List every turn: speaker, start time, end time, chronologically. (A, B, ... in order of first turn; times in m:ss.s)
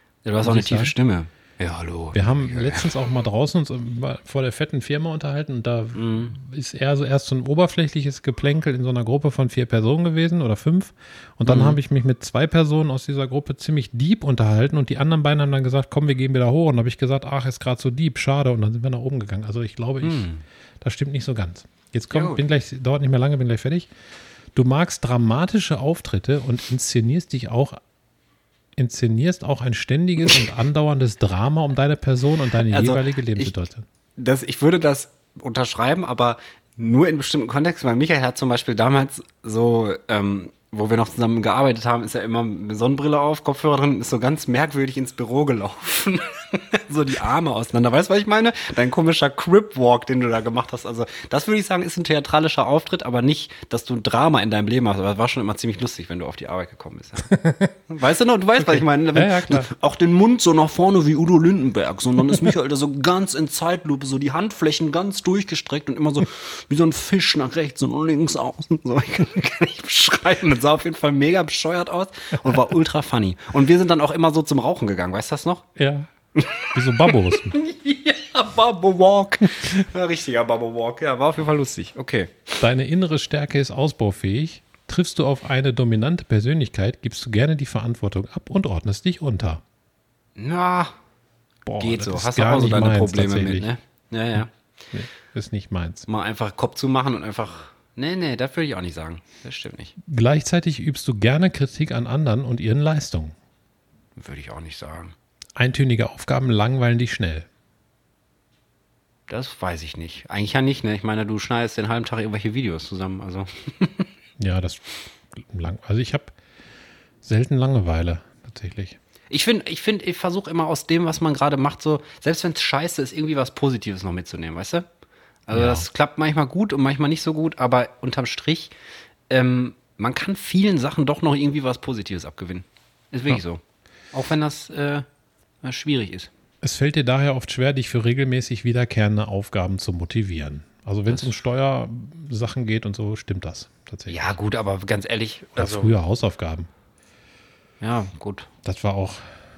0:00.2-0:02.9 A
0:00.4-0:00.9 B
0:02.1-0:20.3 B
0:05.9-0:06.3 A
0:11.4-0:11.8 A
0:20.0-0:20.4 A
0:20.8-0:23.9 B
0:22.1-0:22.4 A
0:24.5-0:27.8 B
0:28.8-0:33.8 B
0:32.6-0:33.5 A
0:34.2-1:15.6 A
0:57.3-0:57.7 B
0:58.6-0:59.7 B
1:15.8-1:16.1 B
1:16.4-1:22.5 A
1:16.7-1:17.6 B
1:22.6-1:29.6 B
1:30.4-1:30.9 A
1:31.6-1:33.7 B
1:31.8-1:34.5 A
1:34.9-1:36.1 B
1:36.1-1:39.9 A
1:40.0-1:43.3 B
1:44.2-1:45.1 A
1:45.6-1:47.5 B
1:49.3-1:54.1 A
1:54.4-1:56.3 B
1:57.2-1:59.0 B
1:59.3-2:04.9 A
2:05.5-2:08.7 A
2:05.5-2:05.9 B
2:09.3-2:13.6 A
2:14.1-2:15.0 A
2:15.6-2:16.3 A
2:16.6-2:24.3 B
2:24.1-2:25.9 A
2:25.6-2:26.7 B
2:27.8-2:28.5 A
2:28.6-2:29.2 B